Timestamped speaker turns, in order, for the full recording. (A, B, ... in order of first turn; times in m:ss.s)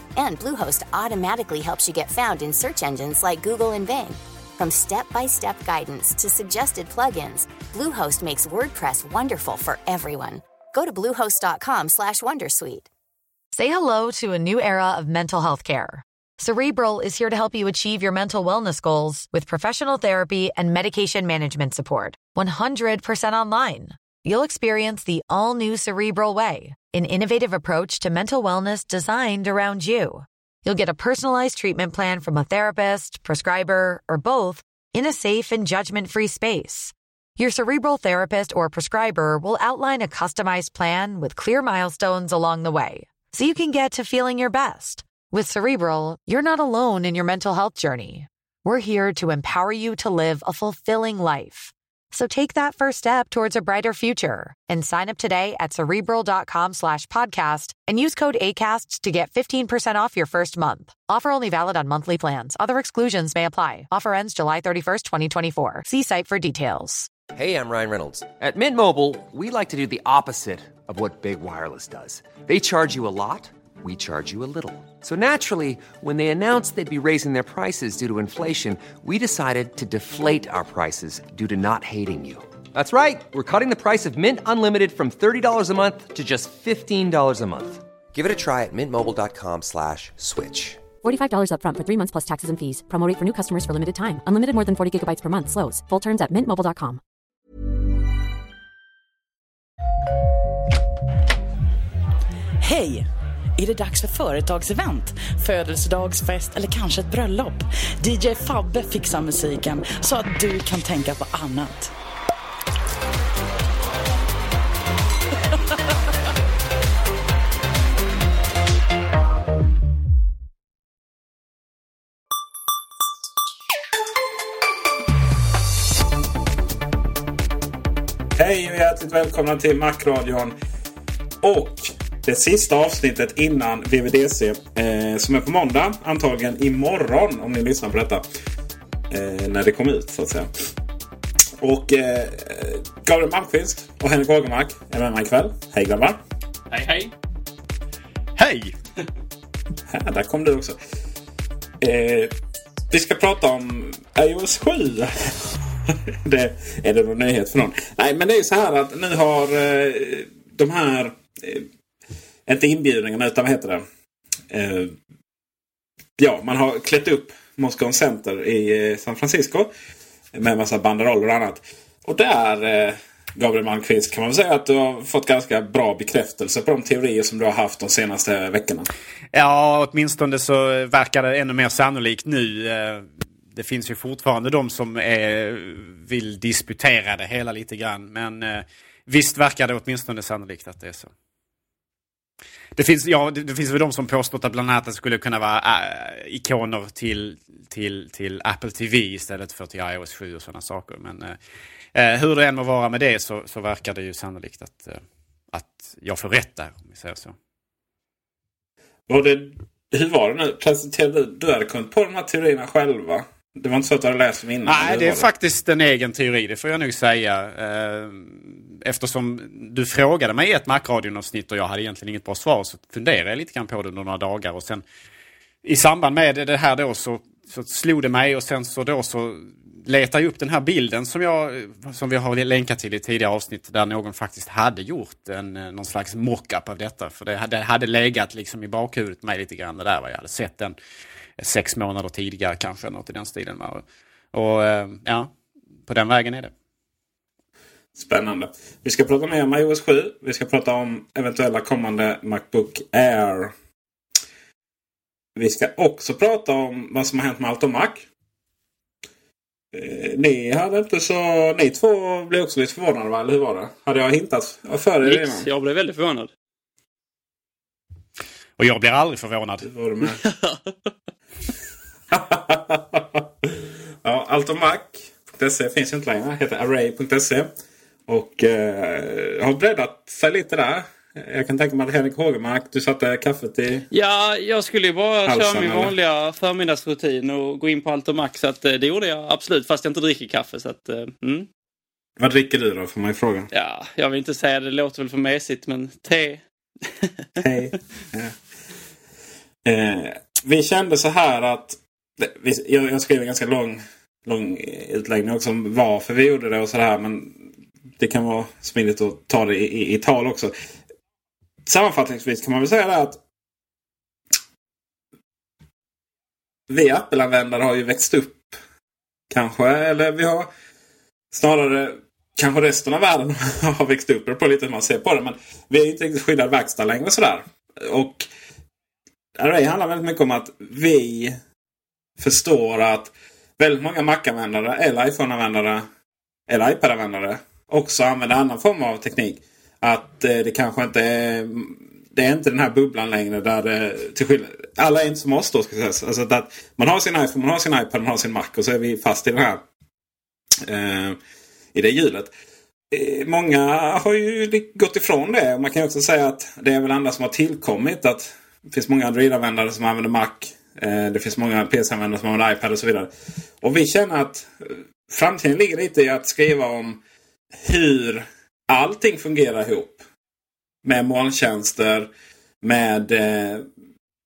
0:00.2-0:12.9 A
0:13.5-1:07.1 B
1:07.3-1:30.8 C
1:31.0-1:37.0 D
1:42.6-1:43.1 E
1:43.6-1:51.9 E
2:08.4-2:10.6 F
2:11.4-2:18.2 F
2:19.1-2:20.5 F
2:21.6-2:26.2 F
2:26.7-2:27.1 G
2:28.4-2:28.8 H
2:29.9-2:30.8 F
2:31.8-2:32.3 F
2:32.9-2:41.7 F
2:42.5-2:43.8 F
2:44.5-2:44.9 F
2:46.2-2:49.7 F
2:50.3-2:58.9 F
2:59.3-3:11.1 H
3:12.8-3:21.4 H
3:21.9-3:25.0 H
3:25.5-3:27.4 H
3:29.1-3:35.3 F
3:34.6-3:44.8 H
3:45.6-4:00.8 H
4:01.4-4:05.3 H
4:05.9-4:06.5 H
4:08.0-4:13.5 F
4:15.4-4:18.0 F
4:19.7-4:25.5 F
4:25.0-4:26.3 G
4:28.6-4:29.7 H
4:29.6-4:30.2 F
4:30.2-4:30.7 G
4:32.1-4:37.5 F
4:38.1-4:43.9 F
4:43.9-4:51.5 G
4:45.3-4:45.9 F
4:52.2-4:53.5 F
4:53.5-4:57.4 G
4:57.4-4:58.3 F
4:59.6-5:07.4 F
5:08.0-5:10.5 F
5:11.7-5:13.2 F
5:16.7-5:18.6 F
5:19.3-5:20.5 F
5:21.3-5:28.3 F
5:29.4-5:31.4 F
5:32.2-5:35.9 F
5:36.5-5:49.6 F
5:50.6-5:51.2 F
5:51.7-5:52.3 F
5:52.9-6:03.1 F
6:03.6-6:07.0 F
6:07.6-6:10.0 F
6:10.8-6:12.1 F
6:12.6-6:13.6 F